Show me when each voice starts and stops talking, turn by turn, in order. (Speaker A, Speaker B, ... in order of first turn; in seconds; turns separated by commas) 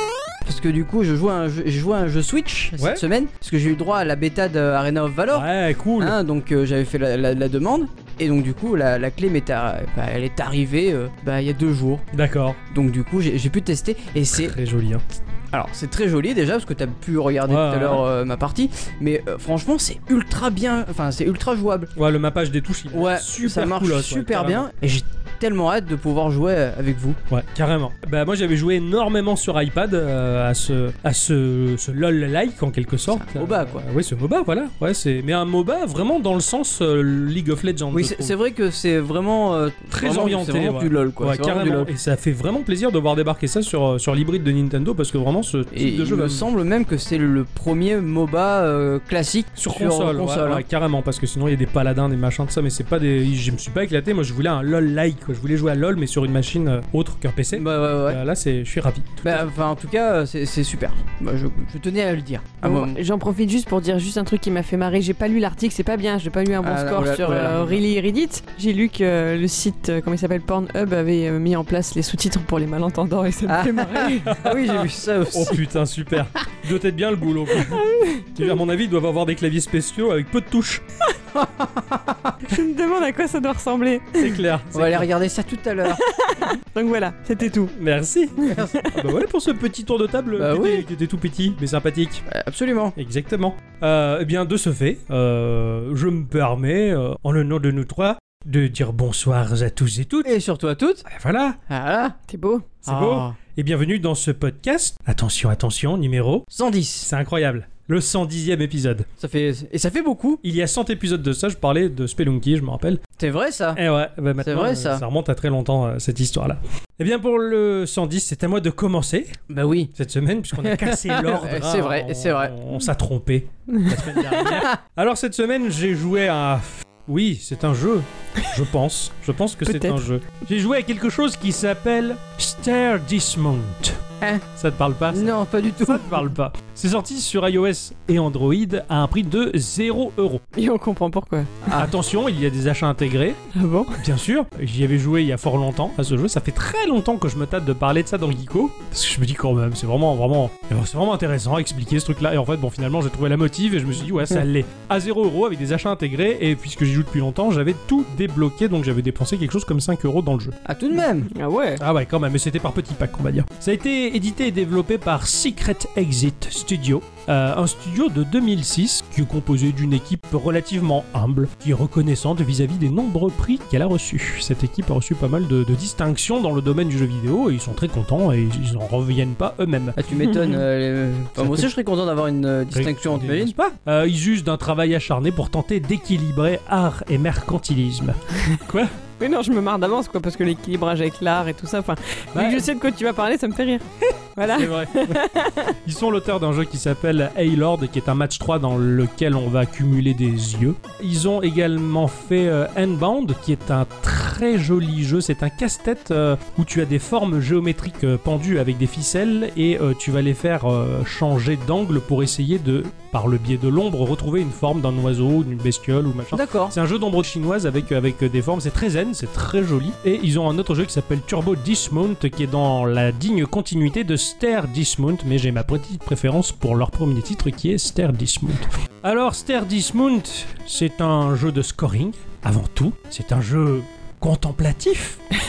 Speaker A: 0.5-12.1, Speaker B: 2.8-3.0, Speaker B: 5.3-6.2, Speaker B: 12.1-12.6, Speaker A: 12.7-14.6, Speaker B: 14.3-15.0, Speaker A: 15.5-21.9, Speaker B: 17.5-18.1, Speaker B: 22.0-24.7, Speaker A: 22.9-27.2, Speaker B: 27.3-38.3, Speaker A: 33.2-33.8, Speaker A: 37.9-41.9, Speaker B: 39.9-46.5, Speaker A: 45.7-50.6, Speaker B: 49.6-59.4, Speaker A: 57.5-58.2, Speaker A: 59.2-63.0, Speaker C: 62.6-74.4, Speaker A: 66.6-67.8, Speaker B: 67.2-67.8, Speaker A: 73.5-75.6, Speaker B: 74.3-80.8, Speaker C: 77.7-78.3, Speaker A: 81.3-82.3, Speaker C: 82.5-84.4, Speaker B: 84.2-85.1, Speaker A: 84.7-86.0, Speaker C: 85.9-87.7, Speaker B: 87.7-92.2, Speaker C: 88.4-88.9, Speaker A: 88.5-88.9, Speaker A: 90.4-90.8, Speaker A: 92.3-93.0, Speaker B: 93.0-100.3, Speaker A: 100.2-101.1, Speaker B: 101.1-101.6, Speaker A: 101.7-102.2, Speaker C: 102.3-102.8, Speaker A: 102.8-103.4, Speaker B: 102.8-106.5, Speaker A: 106.5-107.1, Speaker B: 107.0-109.1, Speaker A: 109.2-110.4, Speaker B: 110.4-113.0, Speaker A: 113.2-113.8, Speaker B: 113.8-119.4, Speaker A: 114.4-115.0, Speaker A: 119.5-119.9, Speaker B: 119.9-134.0, Speaker A: 120.6-122.6, Speaker C: 129.7-130.0, Speaker B: 134.6-140.4, Speaker A: 135.1-136.3, Speaker C: 140.5-141.6, Speaker B: 141.7-143.4, Speaker C: 143.5-144.1, Speaker B: 143.9-160.6, Speaker A: 160.7-161.3, Speaker C: 161.3-161.8, Speaker B: 161.8-180.0, Speaker A: 180.0-183.6, Speaker B: 181.4-181.7, Speaker B: 182.7-188.9, Speaker C: 189.2-195.7, Speaker B: 192.3-192.7, Speaker B: 194.5-195.2, Speaker B: 195.8-235.2, Speaker A: 216.3-216.8